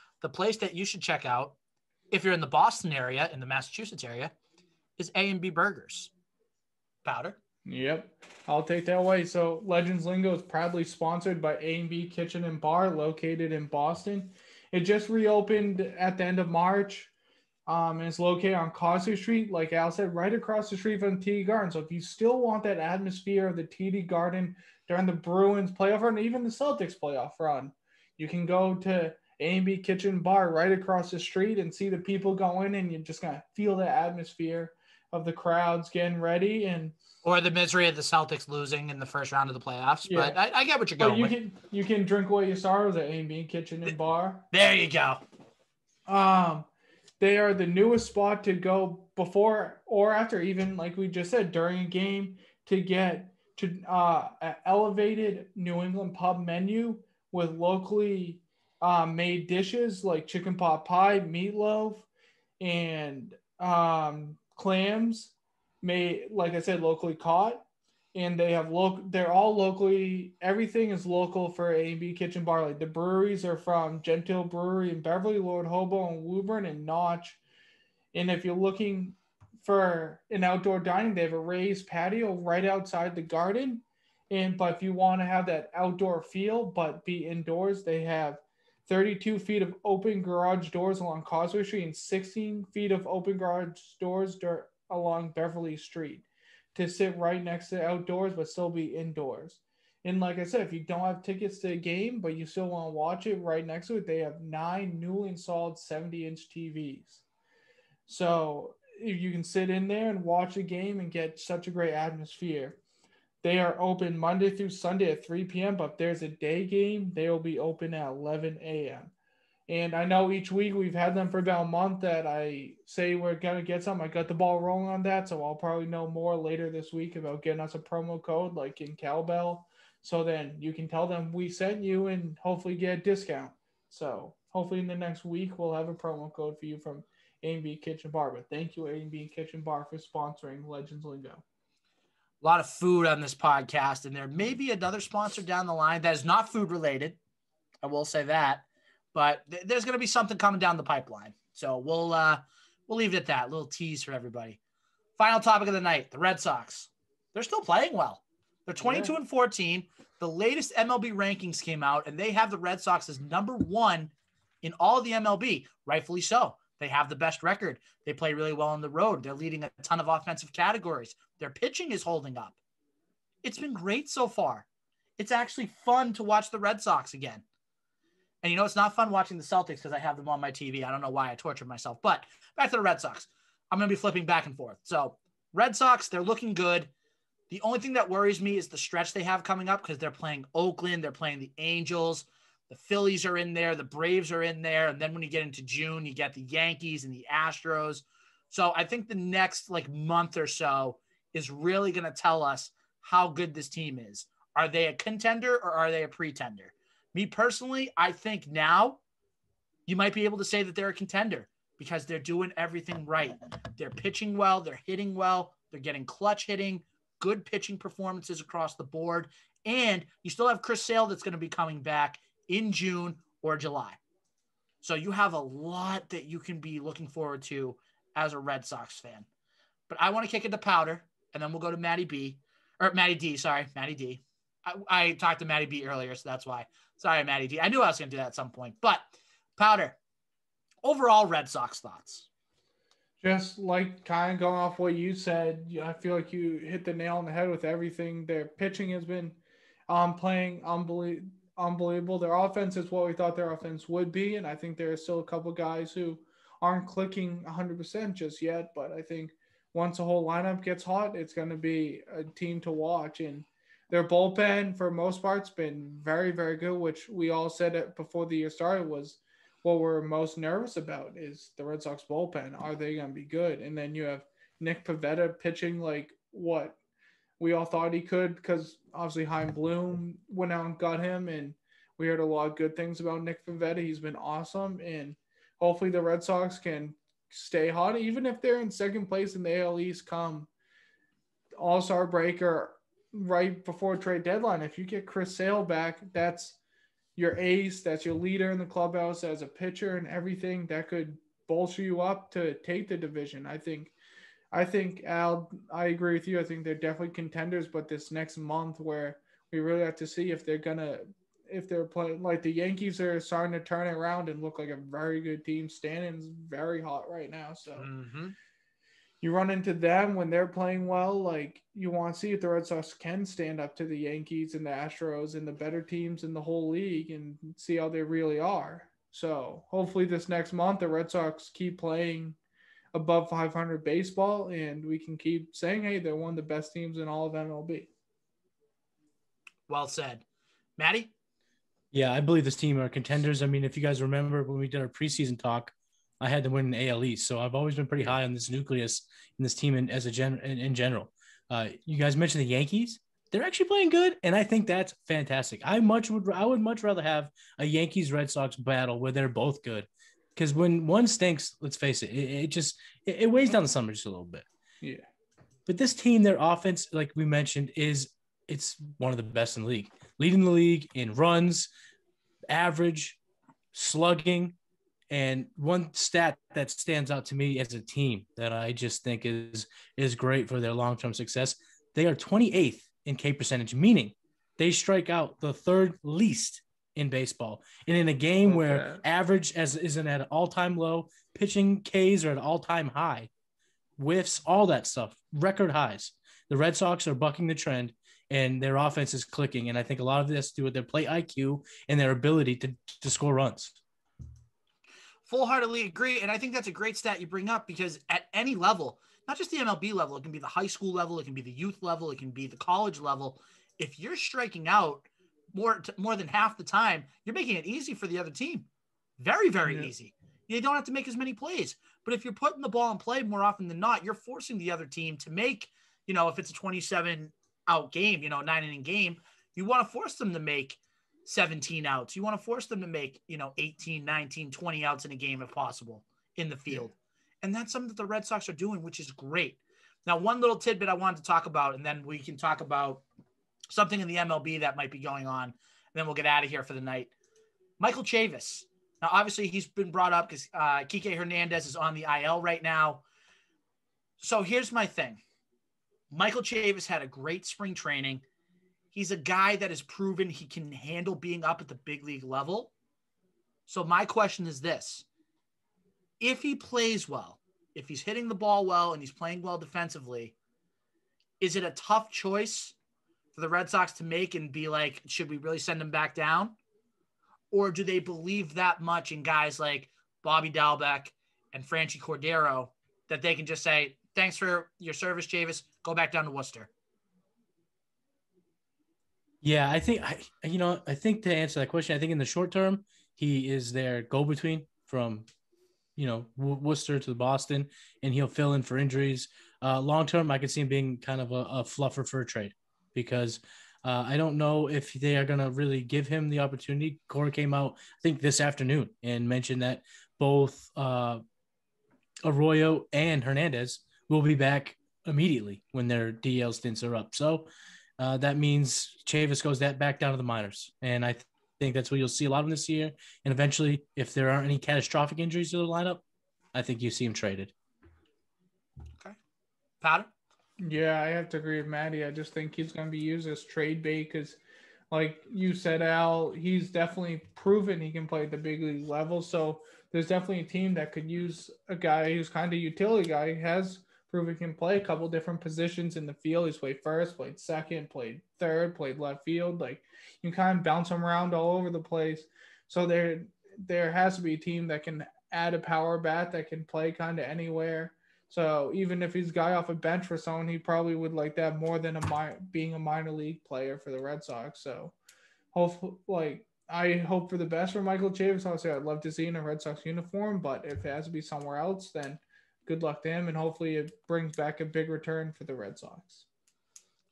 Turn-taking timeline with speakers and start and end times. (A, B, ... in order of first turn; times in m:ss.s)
0:00.2-0:01.6 A
0:02.1-0:04.3 A
0:05.0-0:06.1 A
0:07.0-0:07.4 A
0:07.6-0:17.1 B
0:17.7-0:37.0 B
0:37.2-0:41.3 A
0:40.1-0:40.4 B
0:41.0-0:44.4 B
0:44.5-0:45.2 A
0:46.0-0:46.7 B
0:47.2-1:02.0 B
1:02.6-1:17.4 B
1:18.1-1:47.2 B
1:48.1-1:52.8 B
1:53.4-1:59.1 B
1:59.7-2:21.4 B
2:22.4-2:27.2 A
2:27.8-2:34.6 A
2:35.2-2:52.6 A
2:38.8-2:39.1 B
2:53.4-2:54.6 A
2:55.2-2:57.4 A
2:58.4-3:06.9 A
3:07.5-3:29.0 A
3:29.9-3:44.0 A
3:44.8-3:49.2 A
3:49.9-3:59.0 A
3:59.6-4:00.0 A
4:00.8-4:02.3 A
4:03.2-4:36.8 B
4:37.4-4:50.5 B
4:51.6-4:56.6 B
4:57.2-5:03.9 B
5:04.5-5:17.9 B
5:17.8-5:18.3 A
5:19.2-5:32.4 B
5:32.9-5:37.9 B
5:39.7-5:40.2 A
5:40.8-5:41.1 A
5:41.9-6:04.4 C
6:04.8-6:05.0 B
6:05.7-6:11.7 C
6:12.5-6:13.2 C
6:13.7-6:14.5 C
6:15.1-6:33.3 C
6:28.4-6:29.0 B
6:34.0-6:43.8 C
6:45.3-6:58.7 A
6:59.2-7:23.0 A
6:59.6-6:59.9 B
7:23.7-7:27.1 A
7:27.8-7:33.0 A
7:34.2-7:35.2 A
7:36.1-7:38.2 A
7:38.9-7:42.7 A
7:43.7-7:45.0 A
7:46.2-7:50.3 A
7:51.4-7:52.7 A
7:53.3-7:56.6 A
7:57.5-8:06.7 A
8:09.4-8:15.2 C
8:16.0-8:31.2 C
8:32.2-8:37.5 C
8:38.0-8:46.0 C
8:46.5-8:47.5 C
8:49.8-8:50.1 A
8:50.6-8:54.4 B
8:54.9-9:24.9 B
9:25.5-9:36.2 B